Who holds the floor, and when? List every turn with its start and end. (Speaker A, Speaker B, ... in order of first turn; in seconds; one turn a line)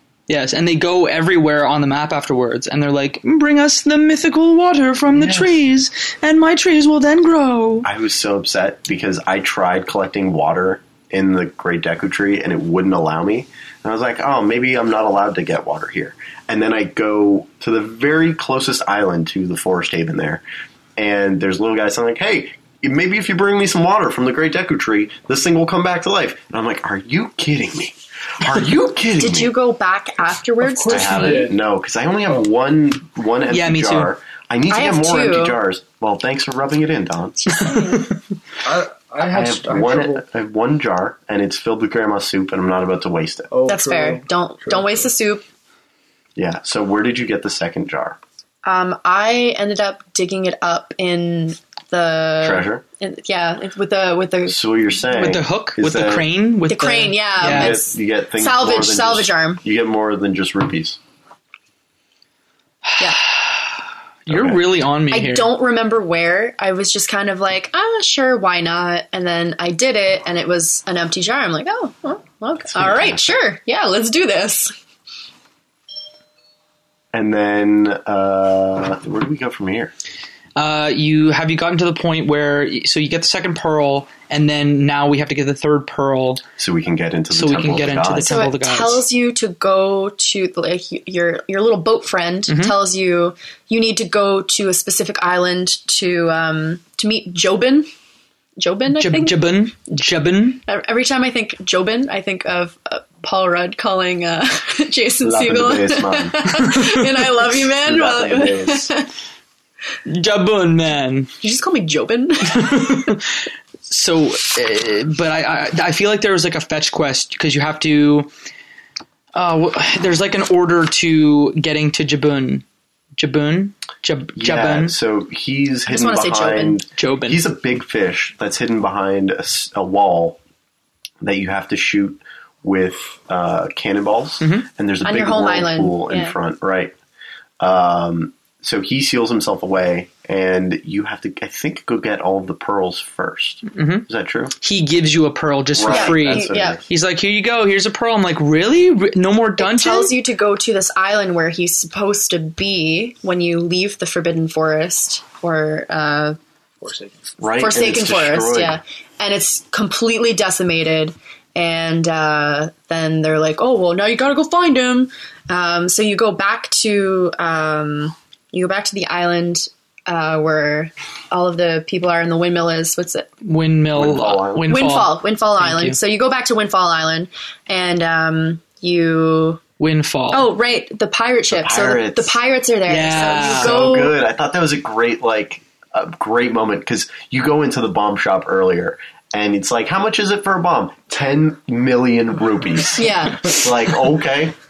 Speaker A: 0.3-7.9
Speaker B: 5.1-5.6
Speaker B: 7.8-20.4
Speaker B: 20.9-29.5
Speaker C: 29.2-31.5
Speaker D: 30.6-31.6
Speaker B: 30.9-37.5
Speaker A: 33.5-34.1
Speaker C: 34.7-35.5
Speaker C: 37.4-38.1
Speaker A: 37.7-38.1
Speaker D: 38.6-40.2
Speaker B: 39.2-43.5
Speaker D: 43.5-45.1
Speaker C: 43.6-45.4
Speaker B: 46.4-48.2
Speaker C: 48.6-54.6
Speaker B: 52.4-52.8
Speaker B: 54.5-56.3
Speaker A: 55.1-57.8
Speaker C: 56.7-59.6
Speaker B: 57.4-61.0
Speaker A: 62.9-63.6
Speaker A: 64.2-65.5
Speaker B: 64.3-64.6
Speaker C: 65.1-74.7
Speaker B: 72.7-73.2
Speaker B: 77.1-79.9
Speaker A: 80.5-86.4
Speaker B: 86.6-88.3
Speaker A: 87.3-89.0
Speaker C: 88.2-97.9
Speaker A: 92.5-92.7
Speaker C: 98.6-99.4
Speaker A: 98.9-100.6
Speaker C: 100.7-109.1
Speaker B: 105.2-106.4
Speaker B: 107.8-108.9
Speaker A: 110.0-111.3
Speaker C: 111.4-113.1
Speaker A: 112.5-113.3
Speaker A: 113.8-118.3
Speaker A: 119.3-122.6
Speaker A: 123.2-124.9
Speaker B: 124.3-130.4
Speaker C: 125.9-126.8
Speaker A: 127.0-127.4
Speaker B: 131.2-136.9
Speaker A: 134.4-134.7
Speaker C: 135.0-136.3
Speaker B: 137.6-144.5
Speaker A: 143.7-144.1
Speaker A: 144.6-150.1
Speaker B: 145.7-146.8
Speaker C: 145.9-146.8
Speaker C: 149.6-156.4
Speaker D: 156.8-157.3
Speaker B: 157.4-158.8
Speaker C: 157.6-173.3
Speaker A: 173.4-176.0
Speaker B: 173.9-174.7
Speaker C: 174.7-179.6
Speaker A: 179.8-180.5
Speaker C: 180.3-184.1
Speaker B: 181.5-182.4
Speaker A: 182.9-183.8
Speaker B: 183.2-194.6
Speaker C: 193.0-193.6